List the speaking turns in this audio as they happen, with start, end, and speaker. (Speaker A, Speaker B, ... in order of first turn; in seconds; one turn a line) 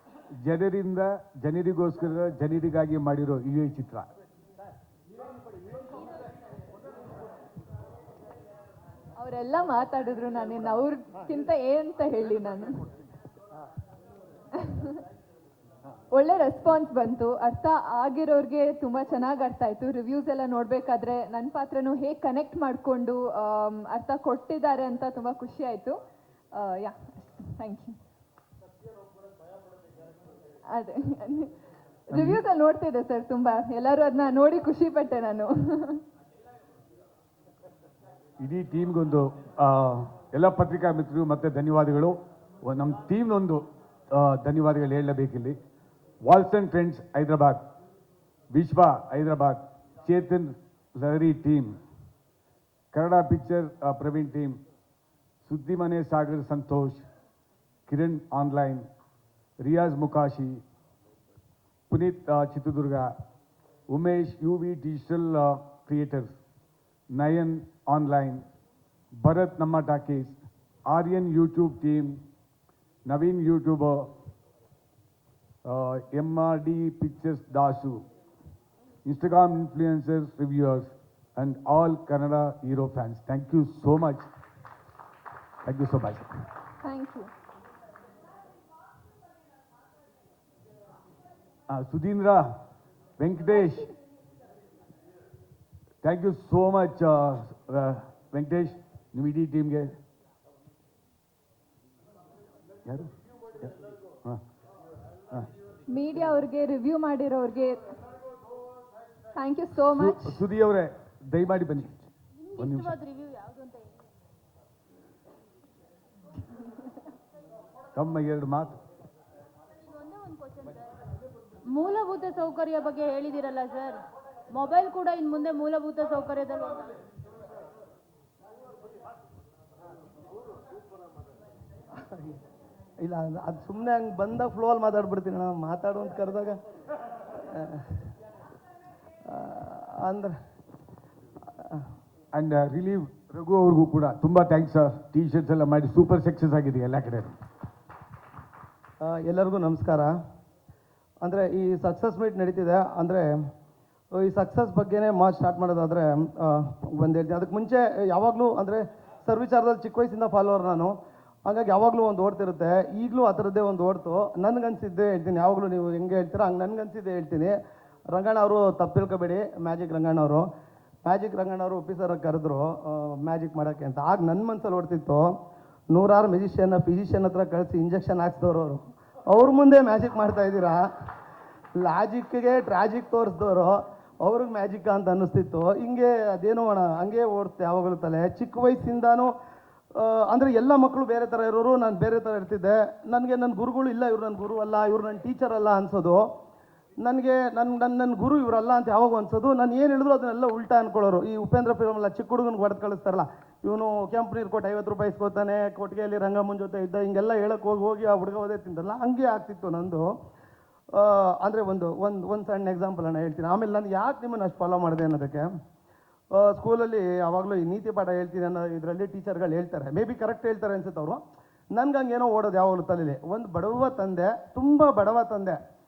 Speaker A: 0.4-4.1
Speaker B: 9.2-12.9
Speaker B: 14.6-15.0
Speaker B: 16.1-26.0
Speaker B: 26.5-27.9
Speaker B: 30.7-31.5
Speaker B: 32.1-36.0
Speaker A: 32.1-32.4
Speaker A: 38.4-45.6
Speaker A: 46.2-47.6
Speaker A: 48.5-51.8
Speaker A: 52.9-54.6
Speaker A: 55.4-57.0
Speaker A: 57.9-58.9
Speaker A: 59.6-60.6
Speaker A: 61.9-63.2
Speaker A: 63.9-66.4
Speaker A: 67.1-68.5
Speaker A: 69.1-72.2
Speaker A: 73.0-74.1
Speaker A: 75.6-78.0
Speaker A: 79.0-84.3
Speaker A: 85.6-86.4
Speaker B: 86.8-87.3
Speaker A: 91.7-92.5
Speaker A: 93.2-93.9
Speaker A: 96.0-100.0
Speaker A: 102.8-103.7
Speaker B: 105.9-107.8
Speaker B: 109.3-110.4
Speaker A: 109.8-113.0
Speaker C: 112.4-113.9
Speaker A: 117.9-118.8
Speaker C: 119.9-120.8
Speaker C: 121.7-126.9
Speaker D: 132.0-132.4
Speaker D: 133.0-136.6
Speaker D: 137.5-138.0
Speaker D: 139.3-140.3
Speaker A: 142.3-147.4
Speaker D: 149.0-150.1
Speaker D: 151.2-153.2
Speaker D: 154.2-160.9
Speaker D: 161.5-167.5
Speaker D: 168.1-170.5
Speaker D: 171.0-175.3
Speaker D: 175.9-180.9
Speaker D: 181.8-189.3
Speaker D: 190.0-196.2
Speaker D: 197.0-210.1
Speaker D: 211.0-215.5
Speaker D: 216.3-221.2
Speaker D: 221.7-225.6